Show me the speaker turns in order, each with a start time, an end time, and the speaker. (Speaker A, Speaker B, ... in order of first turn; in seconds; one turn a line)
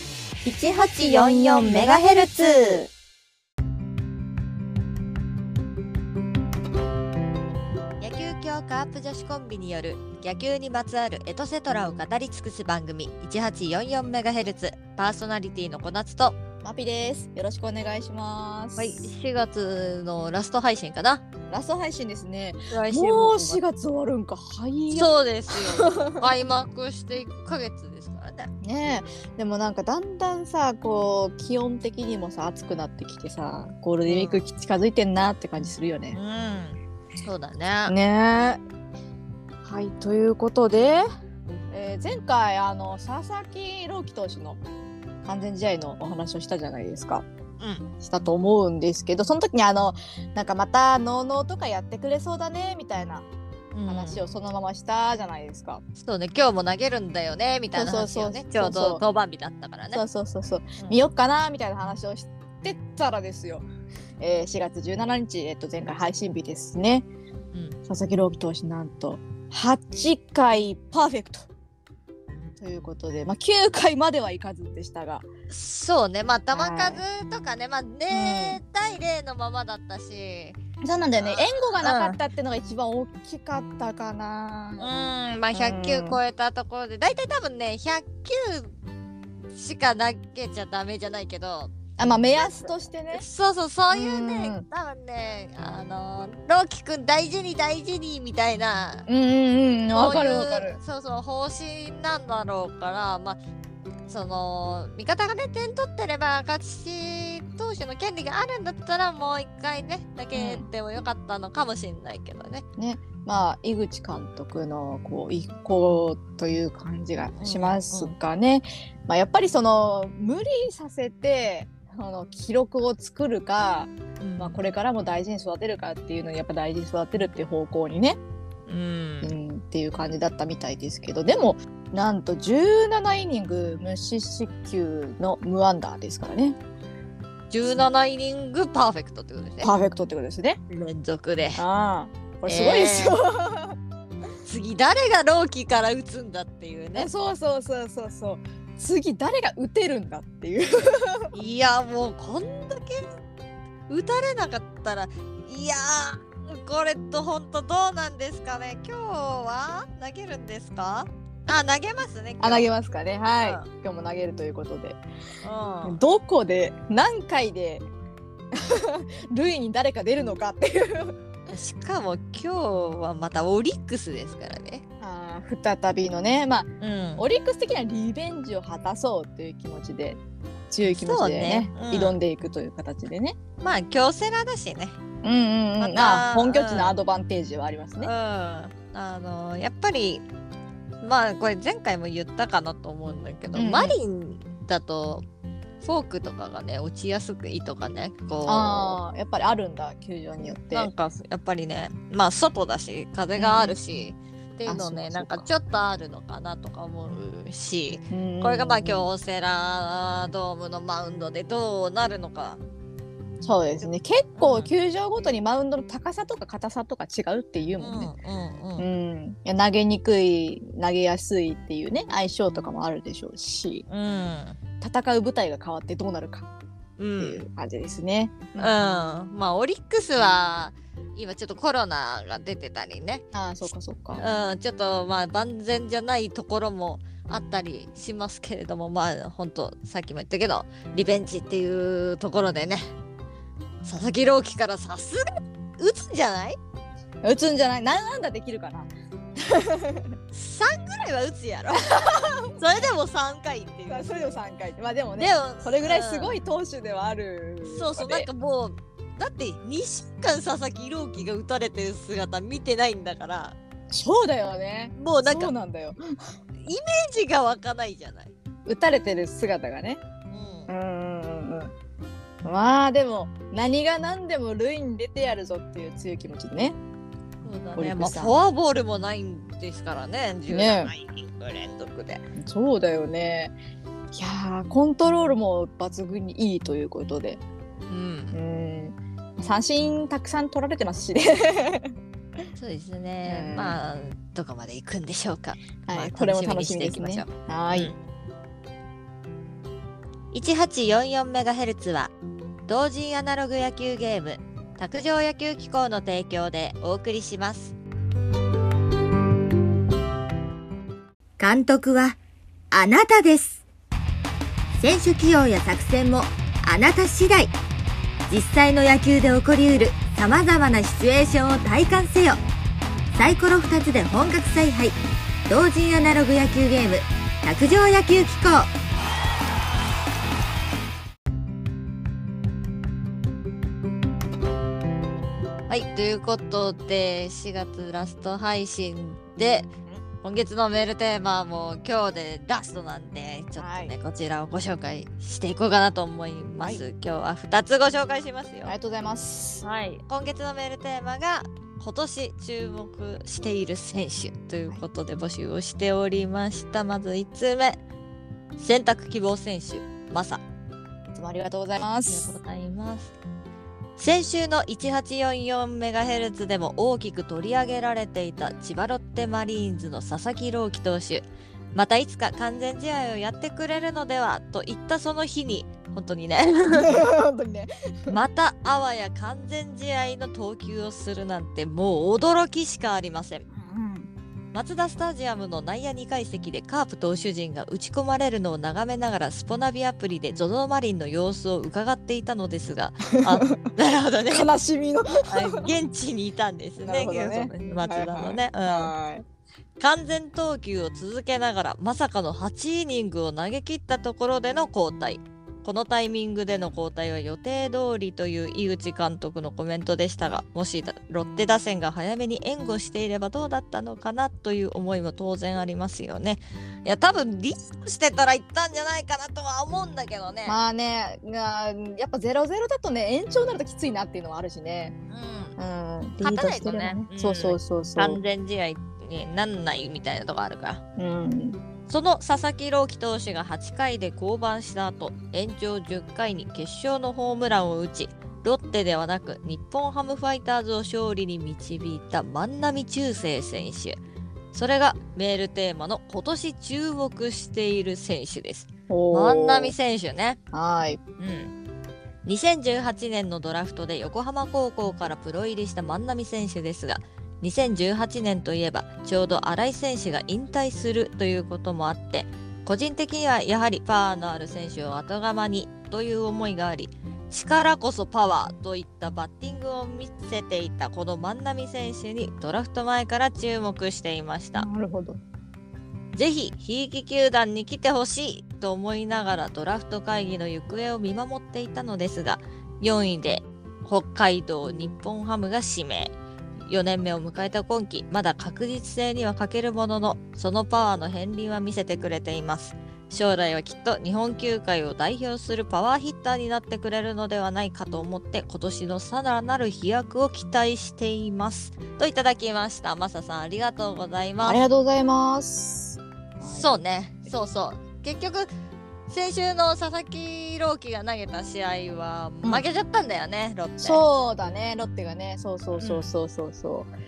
Speaker A: 0.5-2.9
Speaker B: 0.9-2.8
Speaker C: 1.3-2.4
Speaker C: 8.0-16.4
Speaker A: 16.6-19.1
Speaker C: 18.8-21.2
Speaker A: 21.5-26.3
Speaker C: 22.7-23.6
Speaker C: 24.9-28.5
Speaker A: 28.6-36.2
Speaker C: 34.1-34.5
Speaker C: 36.1-38.0
Speaker A: 37.9-38.6
Speaker A: 39.6-41.0
Speaker A: 41.7-44.6
Speaker A: 45.2-47.2
Speaker C: 47.6-47.9
Speaker A: 48.0-53.3
Speaker C: 53.7-54.2
Speaker A: 53.9-55.8
Speaker C: 56.0-60.0
Speaker A: 57.7-59.0
Speaker A: 59.9-63.7
Speaker A: 64.2-67.1
Speaker A: 67.9-71.5
Speaker A: 72.6-75.3
Speaker C: 75.5-80.6
Speaker A: 76.5-77.0
Speaker A: 78.1-78.6
Speaker A: 80.8-84.9
Speaker C: 81.2-82.2
Speaker C: 84.8-88.7
Speaker A: 85.5-86.2
Speaker C: 89.5-91.7
Speaker A: 92.0-93.2
Speaker C: 92.3-99.1
Speaker A: 93.9-94.6
Speaker A: 99.1-100.8
Speaker C: 99.9-103.4
Speaker C: 104.1-112.7
Speaker A: 110.3-110.7
Speaker A: 112.8-128.2
Speaker C: 117.4-118.1
Speaker C: 124.2-124.6
Speaker C: 128.7-129.3
Speaker A: 129.2-136.6
Speaker C: 137.5-139.7
Speaker A: 139.6-140.6
Speaker C: 140.7-141.6
Speaker A: 141.6-143.8
Speaker C: 142.5-143.2
Speaker C: 144.4-147.1
Speaker A: 146.9-151.3
Speaker C: 151.3-153.1
Speaker C: 153.9-162.7
Speaker A: 162.4-165.0
Speaker C: 163.4-163.7
Speaker C: 165.4-166.0
Speaker A: 165.8-167.8
Speaker A: 168.5-171.2
Speaker C: 171.5-174.8
Speaker A: 175.0-183.4
Speaker C: 176.8-177.2
Speaker C: 180.9-182.2
Speaker C: 183.6-185.0
Speaker A: 185.2-188.1
Speaker C: 185.8-186.9
Speaker C: 188.0-190.2
Speaker C: 191.0-195.2
Speaker A: 193.6-194.0
Speaker C: 195.8-199.0
Speaker A: 198.4-200.9
Speaker C: 200.7-212.6
Speaker A: 203.4-203.8
Speaker A: 204.7-205.5
Speaker A: 208.1-209.1
Speaker A: 213.4-218.2
Speaker C: 214.4-214.7
Speaker C: 217.8-218.9
Speaker A: 218.8-223.8
Speaker C: 223.9-224.6
Speaker A: 224.8-226.5
Speaker C: 227.0-227.4
Speaker A: 227.2-228.8
Speaker C: 228.6-233.2
Speaker A: 233.3-234.2
Speaker C: 234.2-242.9
Speaker C: 243.8-246.6
Speaker A: 247.2-250.2
Speaker C: 250.3-254.4
Speaker A: 252.0-252.6
Speaker A: 253.9-258.3
Speaker C: 255.2-256.4
Speaker C: 257.6-263.6
Speaker A: 263.9-266.0
Speaker C: 265.0-265.5
Speaker C: 266.6-268.3
Speaker A: 268.7-270.0
Speaker C: 270.3-270.7
Speaker A: 270.7-271.7
Speaker A: 272.4-276.8
Speaker C: 277.4-282.2
Speaker A: 277.8-278.4
Speaker A: 280.5-280.9
Speaker A: 282.4-283.5
Speaker A: 284.1-287.4
Speaker C: 287.9-288.4
Speaker A: 288.3-292.4
Speaker C: 292.6-298.0
Speaker A: 293.2-293.8
Speaker A: 295.9-297.9
Speaker C: 300.3-302.1
Speaker C: 302.7-307.8
Speaker B: 311.4-312.2
Speaker B: 312.7-313.6
Speaker B: 314.8-317.5
Speaker B: 318.3-322.4
Speaker B: 323.1-325.0
Speaker B: 325.5-328.7
Speaker C: 335.7-339.7
Speaker C: 340.2-348.7
Speaker A: 343.6-343.9
Speaker A: 348.7-349.6
Speaker C: 349.6-357.8
Speaker C: 358.6-360.4
Speaker A: 361.1-362.4
Speaker C: 362.1-363.1
Speaker C: 364.0-377.1
Speaker A: 376.7-378.2
Speaker C: 378.1-383.5
Speaker A: 383.5-384.1
Speaker C: 384.5-394.5
Speaker A: 393.2-393.6
Speaker A: 394.3-395.7
Speaker C: 395.3-398.9
Speaker A: 396.8-399.2
Speaker C: 399.8-420.6
Speaker A: 420.5-425.0
Speaker C: 425.1-425.6
Speaker A: 425.6-428.2
Speaker C: 426.2-430.8
Speaker A: 431.0-431.6
Speaker C: 431.9-444.0
Speaker C: 444.5-450.4
Speaker A: 448.9-449.8
Speaker A: 450.5-451.0
Speaker C: 451.2-451.5
Speaker C: 452.2-474.7
Speaker A: 474.6-475.2
Speaker C: 476.1-486.1
Speaker C: 486.7-504.6
Speaker A: 504.4-506.7
Speaker C: 506.4-508.5
Speaker C: 509.1-514.0
Speaker A: 513.8-516.9
Speaker C: 515.8-516.1